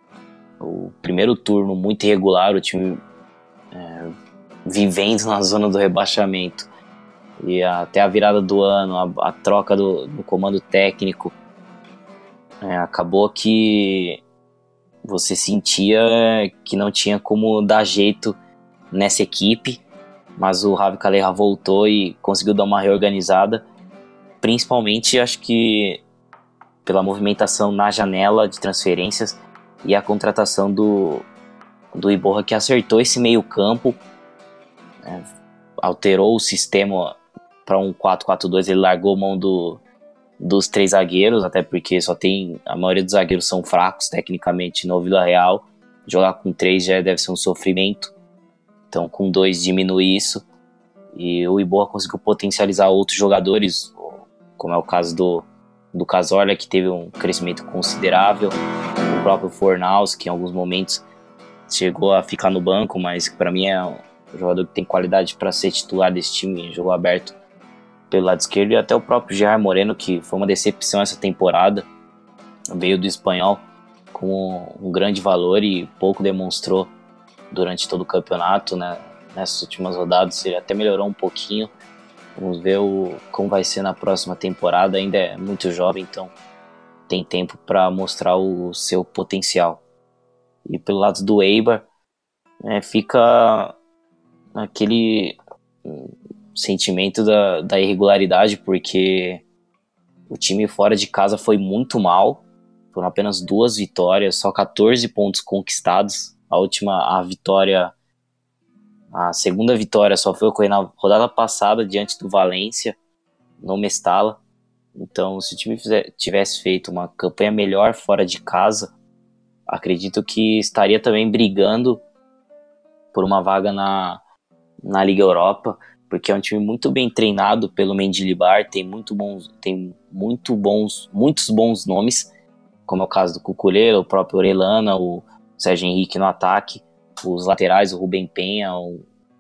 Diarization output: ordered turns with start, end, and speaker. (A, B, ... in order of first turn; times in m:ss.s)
0:00.6-0:03.0 A
0:03.7-0:04.1 A
0:04.7-0:06.7 A
0:07.4-0:11.3 A
0:12.6-0:14.2 A
0:15.0-0:18.4 A
0:18.9-0:19.8 A
0:20.4-0:23.6 A
0:24.4-0:26.0 A
0:26.8-0:31.3 A
0:32.0-0:34.0 A
0:35.8-0:39.8 A
0:40.4-0:48.1 A
0:48.9-0:50.4 A
0:51.2-0:58.6 A
0:59.1-1:01.0 A
1:01.7-1:07.4 A
1:08.1-1:11.9 A
1:12.8-1:16.9 A
1:17.5-1:21.7 A
1:22.4-1:26.3 A
1:27.1-1:29.8 A
1:30.7-1:31.9 A
1:32.6-1:33.7 A
1:34.6-1:39.4 A
1:40.3-1:47.9 A
1:49.1-1:53.0 A
1:53.6-1:54.4 A
1:55.0-1:58.9 A
1:59.7-2:02.0 A
2:03.1-2:04.2 A
2:04.8-2:12.3 A
2:12.9-2:19.0 A